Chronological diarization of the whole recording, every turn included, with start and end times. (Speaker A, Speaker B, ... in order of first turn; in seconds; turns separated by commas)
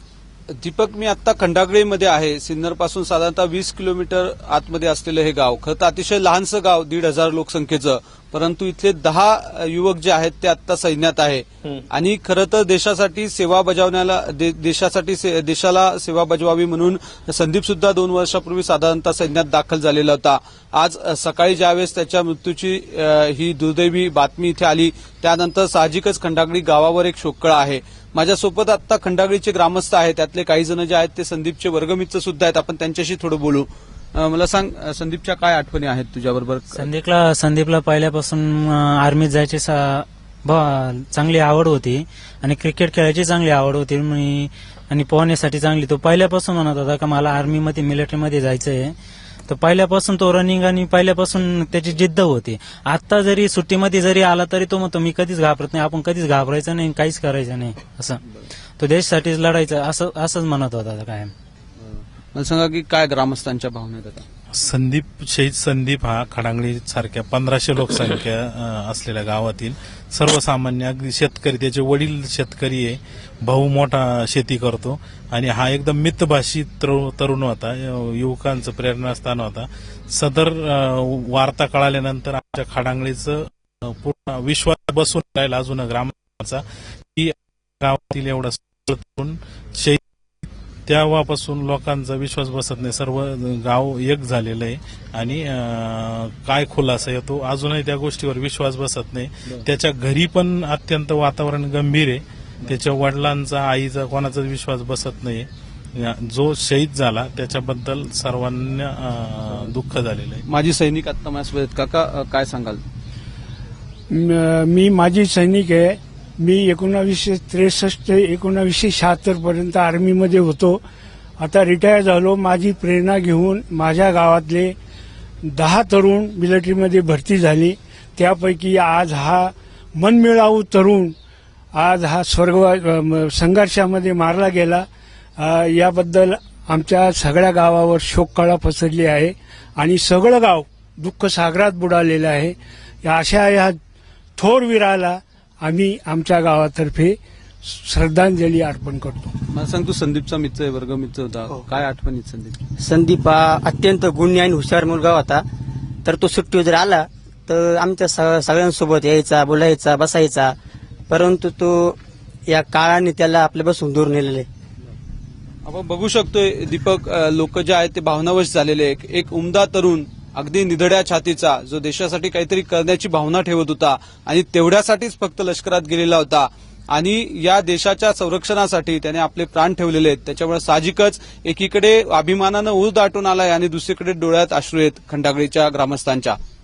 Speaker A: 0.6-36.9, Speaker B: 36.7-58.2, Speaker B: 58.8-61.3, Speaker A: 61.9-64.2, Speaker C: 64.5-86.6, Speaker C: 87.2-90.0, Speaker C: 90.9-110.4, Speaker A: 110.5-112.8, Speaker D: 114.1-120.8, Speaker D: 121.4-124.7, Speaker D: 125.4-131.1, Speaker D: 131.7-134.8, Speaker D: 135.4-143.8, Speaker D: 144.4-149.3, Speaker A: 149.5-152.6, Speaker E: 152.8-155.4, Speaker E: 156.0-160.5, Speaker E: 161.1-164.5, Speaker A: 165.7-186.3